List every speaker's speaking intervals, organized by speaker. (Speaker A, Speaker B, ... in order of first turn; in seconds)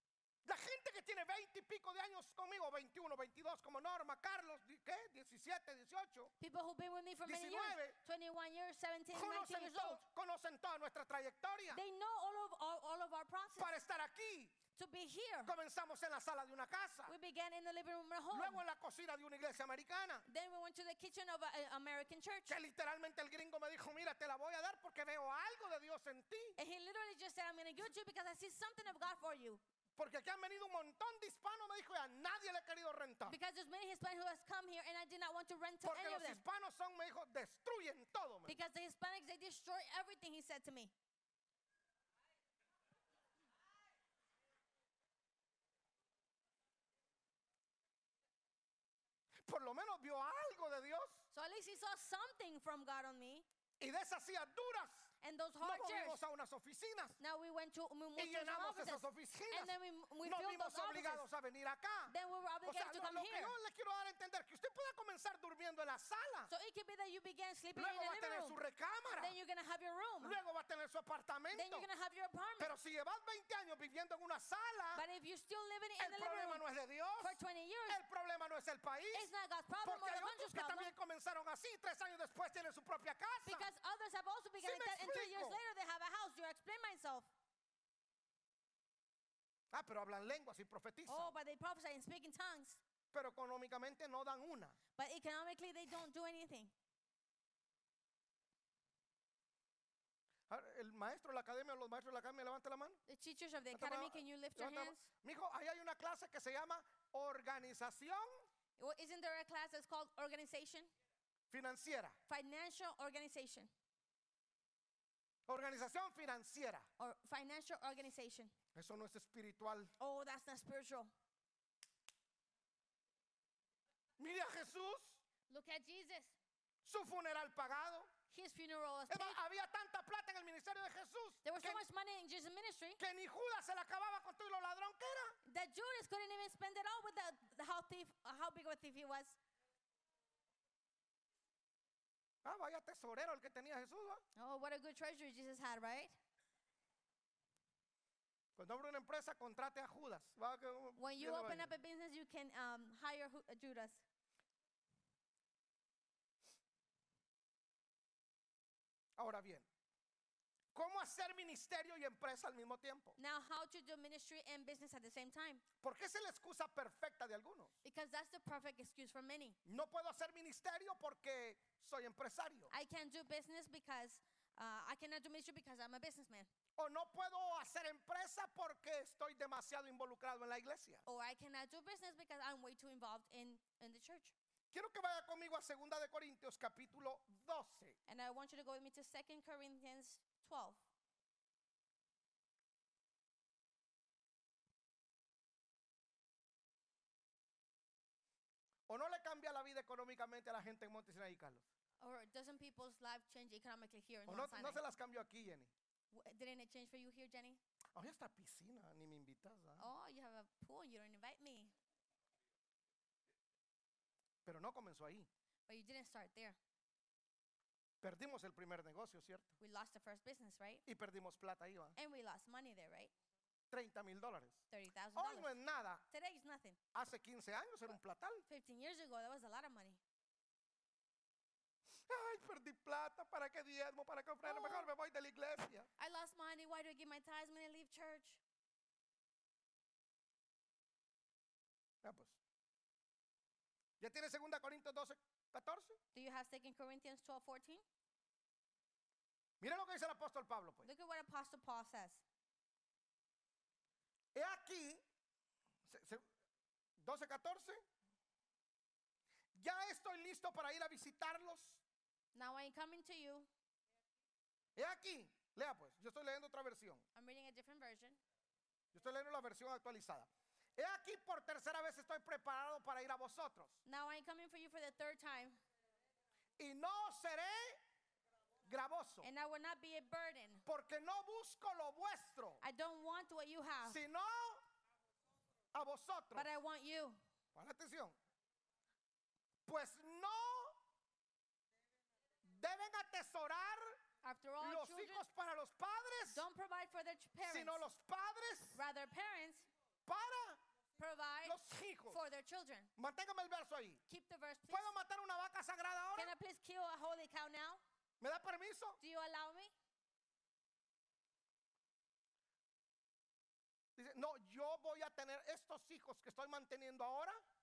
Speaker A: 0.4-6.3, 7.2-8.0, 9.1-11.8, 13.6-14.6, 15.4-17.1, 18.3-20.2, 22.5-26.6, 30.0-33.4, 35.8-38.6, 49.4-51.2, 53.8-57.2, 58.1-66.5, 67.7-69.3, 70.2-71.9, 72.6-75.0, 76.0-79.3, 79.8-83.7, 84.6-85.6, 89.7-91.3, 93.1-94.8, 100.5-103.0, 103.7-108.3, 111.5-112.2, 115.5-116.9, 118.7-119.9, 124.2-125.2, 126.8-128.1, 129.1-131.8, 133.0-135.4, 142.4-144.2, 148.6-151.7, 159.2-159.7, 160.7-163.2, 165.8-167.7, 169.7-172.7, 176.8-181.0, 184.7-188.0, 198.9-201.6, 204.3-205.7, 207.9-209.9, 214.4-215.3, 218.0-219.5, 220.8-221.9, 223.7-224.6, 225.1-226.1, 226.9-228.4, 232.1-235.9, 242.0-242.4, 244.0-246.0, 249.6-250.9, 254.3-255.0, 255.8-256.2, 257.0-257.8, 259.5-261.8, 264.8-267.0, 268.9-273.8, 276.6-277.8, 278.6-279.3, 280.6-282.6, 283.8-284.6, 285.7-286.5, 287.5-288.1, 289.6-290.8, 292.4-294.0, 294.6-296.4, 297.4-298.8, 300.1-300.6, 301.4-302.2, 303.0-304.0, 304.7-306.3, 308.2-309.0, 313.9-317.4
Speaker B: 6.4-10.0, 11.7-13.7, 14.7-15.5, 17.1-18.6, 20.2-22.6, 26.6-29.6, 33.2-36.4, 38.4-40.9, 51.3-53.5, 55.2-56.2, 57.2-61.2, 62.1-63.5, 66.5-68.6, 69.2-70.4, 71.5-72.7, 74.9-76.6, 77.2-78.0, 79.1-80.9, 83.4-87.3, 91.0-92.8, 95.0-96.7, 103.1-105.1, 108.8-110.9, 112.3-113.7, 117.0-118.5, 120.0-121.1, 125.5-126.3, 128.3-129.4, 131.4-133.0, 135.4-139.4, 144.3-146.2, 151.0-154.0, 163.2-165.6, 167.8-169.6, 172.7-176.5, 181.1-184.3, 188.1-190.8, 202.0-204.8, 206.1-207.6, 209.8-211.7, 215.7-216.6, 219.6-220.8, 221.9-223.1, 224.7-225.5, 226.1-226.8, 228.5-230.0, 234.4-234.9, 236.0-238.4, 246.1-247.8, 250.8-252.2, 262.3-263.5, 267.1-268.2, 273.8-275.6, 279.2-280.6, 282.6-284.0, 286.3-287.2, 294.2-295.2, 296.3-297.8, 298.7-299.7, 301.0-302.9, 304.1-304.9, 306.1-307.8, 309.0-309.7